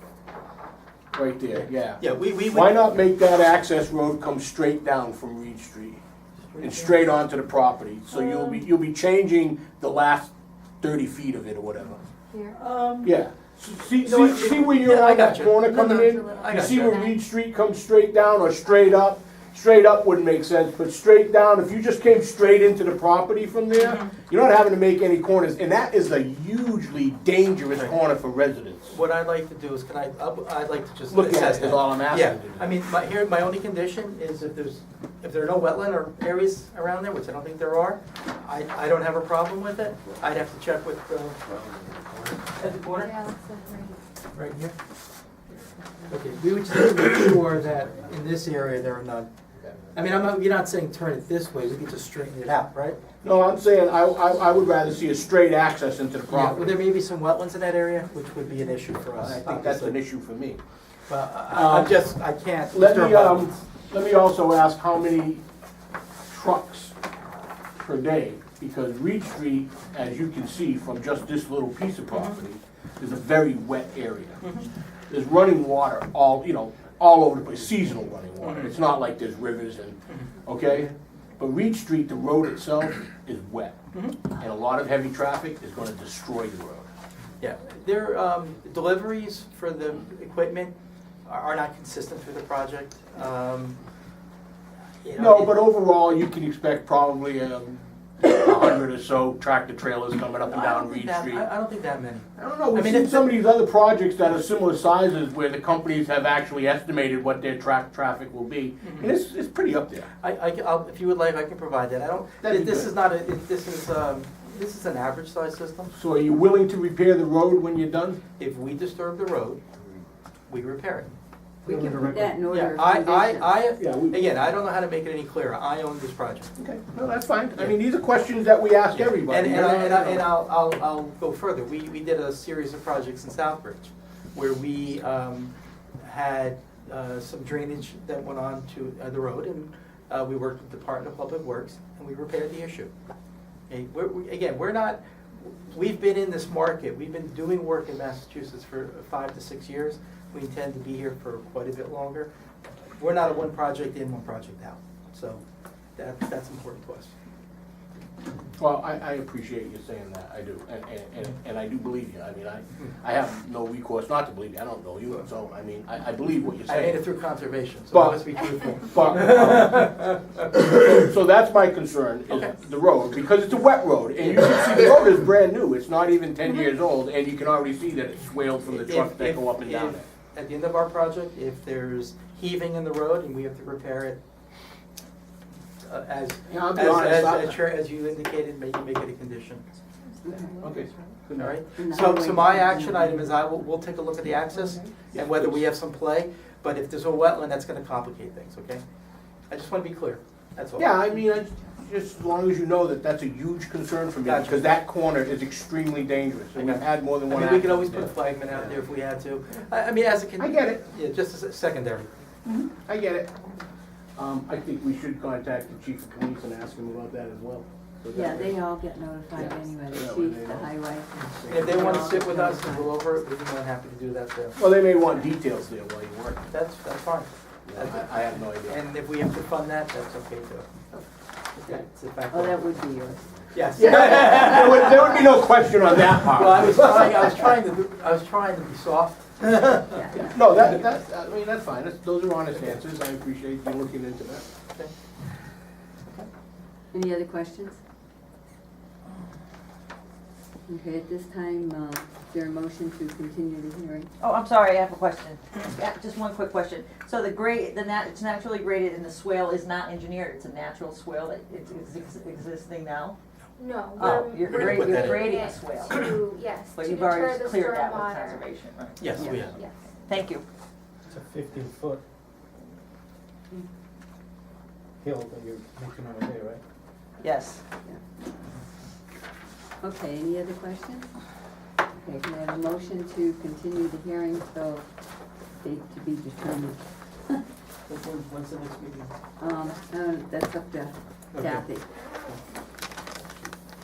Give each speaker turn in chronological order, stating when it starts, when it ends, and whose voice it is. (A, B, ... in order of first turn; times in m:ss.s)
0:01.1-0:06.0 A
0:01.5-0:03.0 B
0:06.5-0:07.0 B
0:06.6-0:12.0 A
0:12.3-0:12.6 C
0:12.6-0:13.1 B
0:13.0-0:29.0 A
0:14.0-0:17.0 B
0:15.7-0:17.2 C
0:23.8-0:24.1 B
0:28.9-0:41.4 B
0:31.1-0:32.8 A
0:41.9-0:42.4 D
0:42.6-0:43.1 B
0:42.9-0:44.0 C
0:44.4-0:44.8 B
0:46.1-0:49.3 B
0:49.9-0:53.0 B
0:53.2-0:56.8 A
0:56.3-1:00.0 B
0:59.2-1:00.6 A
1:01.1-1:03.6 B
1:01.5-1:02.0 A
1:02.7-1:05.4 A
1:06.3-1:06.9 A
1:07.8-1:14.4 A
1:15.1-1:23.8 A
1:18.4-1:18.8 B
1:23.9-1:24.2 B
1:24.4-1:26.9 A
1:27.4-1:30.7 B
1:31.3-1:33.8 B
1:35.0-1:35.7 B
1:35.2-1:41.4 A
1:40.5-1:43.4 B
1:42.4-1:50.1 A
1:48.8-1:49.1 B
1:50.2-1:55.9 B
1:52.4-1:52.9 A
1:55.9-1:58.2 A
1:58.4-1:59.6 B
2:00.5-2:01.1 B
2:01.6-2:03.6 E
2:01.7-2:06.5 B
2:03.8-2:04.2 A
2:06.6-2:10.3 A
2:08.9-2:22.9 B
2:23.7-2:32.3 B
2:33.0-2:35.4 B
2:36.0-2:37.1 B
2:38.6-2:47.0 A
2:46.7-2:50.5 B
2:47.9-2:49.9 A
2:50.8-3:00.1 A
2:52.3-2:52.5 B
2:54.2-2:55.0 B
2:58.7-3:04.2 B
3:05.8-3:09.6 B
3:06.5-3:07.6 A
3:10.2-3:10.7 E
3:10.6-3:11.6 D
3:11.3-3:18.8 B
3:11.8-3:13.4 E
3:15.1-3:15.6 A
3:19.5-3:21.0 B
3:20.8-3:28.2 A
3:24.2-3:24.7 B
3:26.6-3:32.1 B
3:30.4-3:30.8 A
3:32.5-3:33.3 A
3:34.2-3:38.6 A
3:38.1-3:43.0 E
3:39.4-3:40.7 A
3:41.1-3:44.6 B
3:41.3-3:42.2 A
3:44.6-3:46.5 A
3:46.5-3:50.7 B
3:47.7-3:48.8 A
3:51.5-3:52.6 B
3:52.3-3:54.3 E
3:53.5-3:55.3 B
3:53.8-3:57.6 A
3:56.1-4:00.7 B
3:59.9-4:00.4 E
4:00.1-4:04.5 A
4:06.9-4:07.8 E
4:10.7-4:14.1 E
4:14.2-4:23.2 F
4:23.6-4:28.5 C
4:23.9-4:26.1 F
4:24.0-4:25.3 B
4:26.7-4:30.4 F
4:29.0-4:29.6 B
4:29.2-4:29.5 E
4:31.1-4:32.0 D
4:35.0-4:36.6 D
4:37.2-4:37.6 F
4:39.8-4:41.1 E
4:41.9-4:44.9 E
4:45.6-4:47.4 E
4:47.9-4:49.1 B
4:49.4-4:51.9 E
4:51.3-4:51.7 B